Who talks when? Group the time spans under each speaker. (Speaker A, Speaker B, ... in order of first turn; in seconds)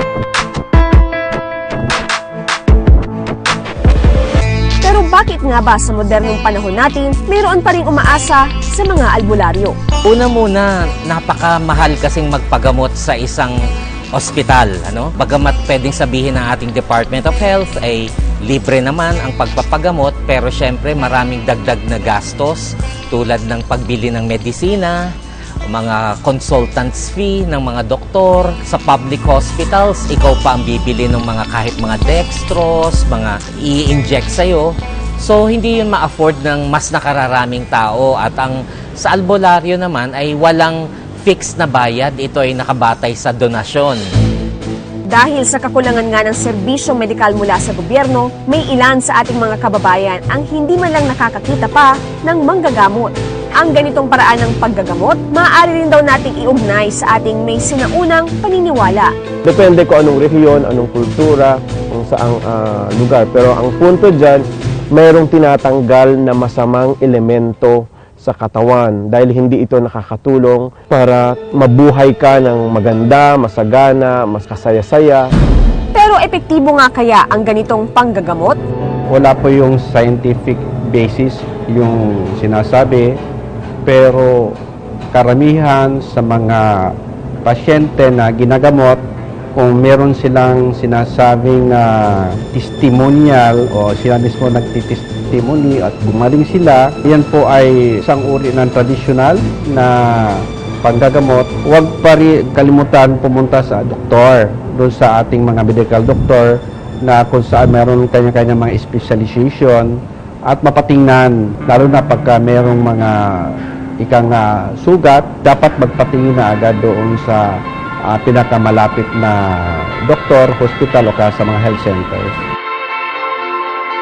Speaker A: 4.8-9.8, 45.1-59.1, 75.9-78.6
Speaker B: 10.0-13.6, 14.1-25.0, 25.7-44.0
Speaker C: 59.5-75.2
Speaker D: 79.1-83.2, 83.8-84.6, 85.1-89.0, 89.5-122.3